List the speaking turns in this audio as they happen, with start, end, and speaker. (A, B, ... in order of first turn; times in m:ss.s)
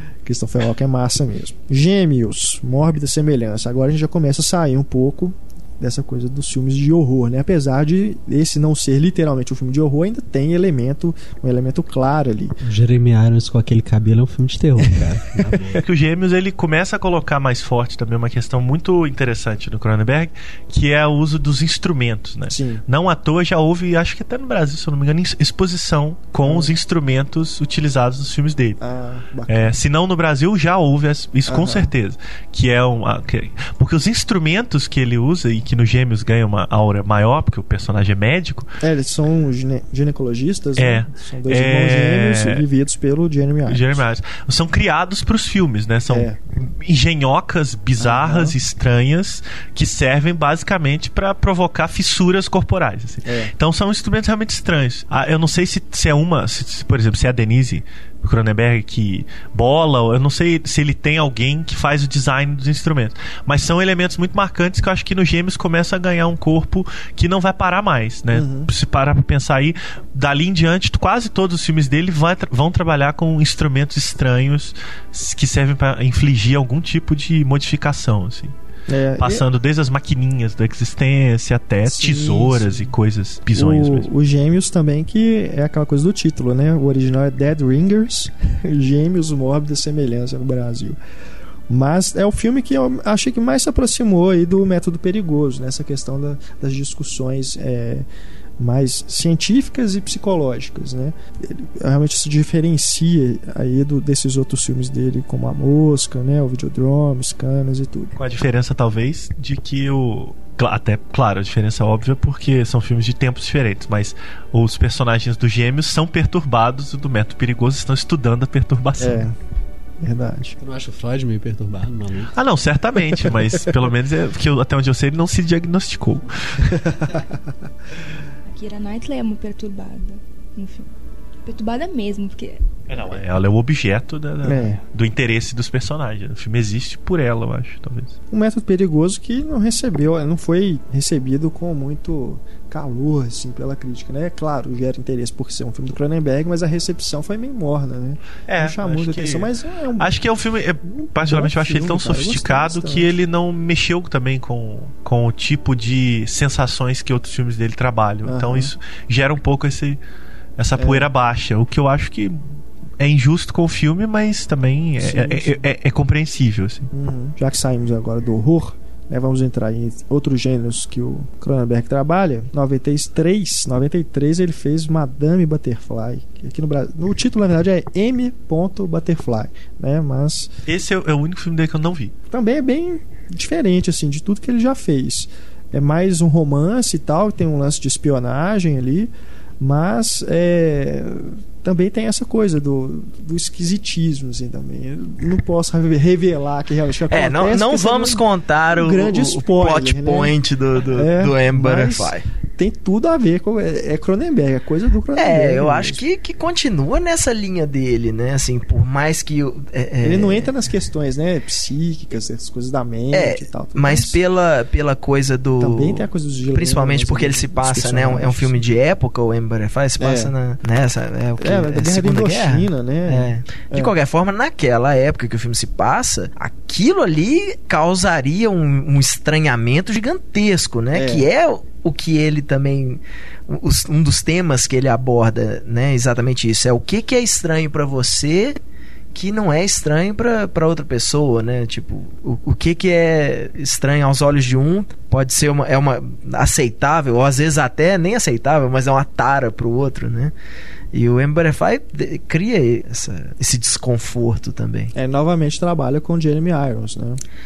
0:00.2-0:12.5 A
0:12.6-0:15.8 B
0:15.8-0:28.8 C
0:22.5-0:22.8 A
0:26.4-0:26.7 A
0:28.8-0:29.7 A
0:29.5-0:38.7 C
0:31.5-0:31.9 A
0:38.8-0:44.0 A
0:40.8-0:42.6 C
0:43.6-1:18.5 C
0:46.1-0:46.4 A
0:48.0-0:48.5 A
0:53.2-0:53.5 A
1:08.3-1:08.7 A
1:18.9-1:19.4 A
1:19.2-1:24.1 C
1:21.8-1:22.9 A
1:23.5-1:31.0 A
1:31.7-1:38.0 A
1:38.6-1:48.2 A
1:48.2-1:59.3 C
1:59.0-1:59.3 A
2:00.0-2:00.6 A
2:00.6-2:02.4 B
2:02.3-2:06.7 C
2:06.8-2:07.3 A
2:08.4-2:10.9 D
2:11.4-2:12.6 D
2:12.9-2:18.1 C
2:14.4-2:14.8 A
2:18.3-2:30.1 A
2:28.5-2:40.0 C
2:30.9-2:33.1 A
2:38.2-2:38.7 A
2:40.6-2:42.4 C
2:40.8-2:41.1 A
2:43.0-2:46.9 C
2:45.0-2:45.6 A
2:46.9-3:00.5 A
3:00.6-3:02.1 C
3:02.3-3:20.4 A
3:17.1-3:22.2 E
3:20.9-3:26.0 A
3:25.1-3:30.5 E
3:30.0-3:34.2 A
3:33.1-3:58.6 E
3:35.6-3:38.6 A
3:40.0-3:40.3 A
3:41.4-3:43.9 A
3:50.9-3:51.3 A
3:59.1-4:10.3 E
4:10.9-4:14.9 E
4:14.9-4:17.2 A